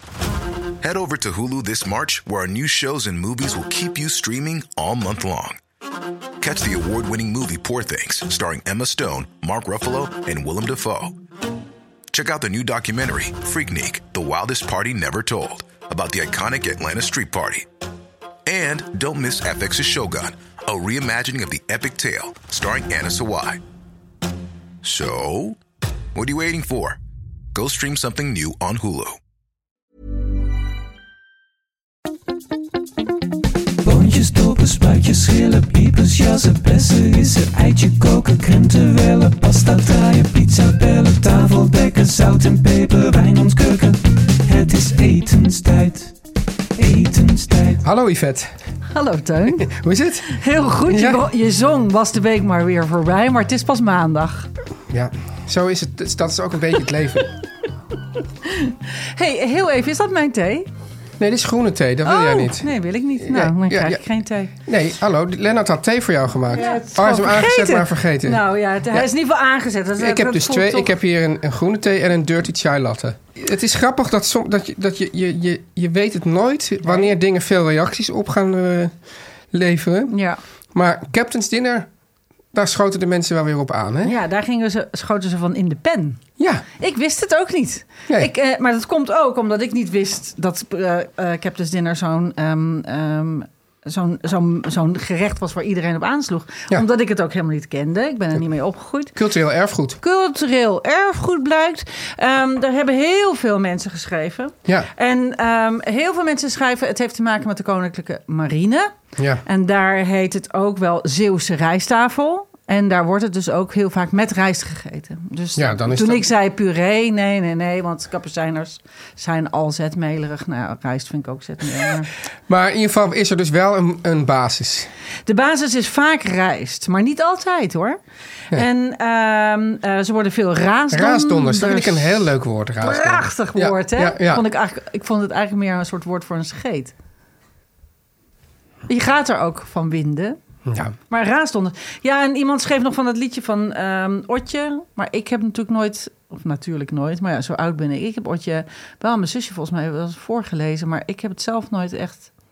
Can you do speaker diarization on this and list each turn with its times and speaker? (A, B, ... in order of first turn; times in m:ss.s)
0:00.8-0:05.6 A
0:06.4-0:11.2 A
0:12.1-0:17.7 A
0:18.4-0:23.6 A
0:24.8-0:25.6 A
0:26.1-0:27.0 A
0:27.5-0:29.2 A
0:33.8-0:46.1 B
0:46.8-0:47.8 B
0:47.8-0:48.5 C
0:48.9-0:49.7 D
0:49.5-0:50.3 C
0:50.2-0:54.5 D
0:50.9-0:51.2 C
0:54.9-0:57.3 C
0:58.4-1:00.7 D
1:01.2-1:04.0 C
1:02.0-1:04.6 D
1:04.6-1:09.1 C
1:06.5-1:10.9 D
1:10.0-1:18.9 C
1:19.5-1:20.1 C
1:20.1-1:20.4 D
1:20.7-1:21.9 C
1:22.5-1:24.1 C
1:24.0-1:26.2 D
1:26.4-1:26.6 C
1:26.8-1:39.2 D
1:39.1-1:40.0 C
1:40.0-1:48.9 D
1:49.2-1:49.4 C
1:49.4-2:02.1 D
1:55.6-1:56.3 C
2:02.5-2:04.9 C
2:05.3-2:08.0 D
2:08.5-2:16.9 D
2:10.9-2:14.4 C
2:18.9-2:20.4 D
2:20.7-2:21.0 C
2:21.1-2:32.3 D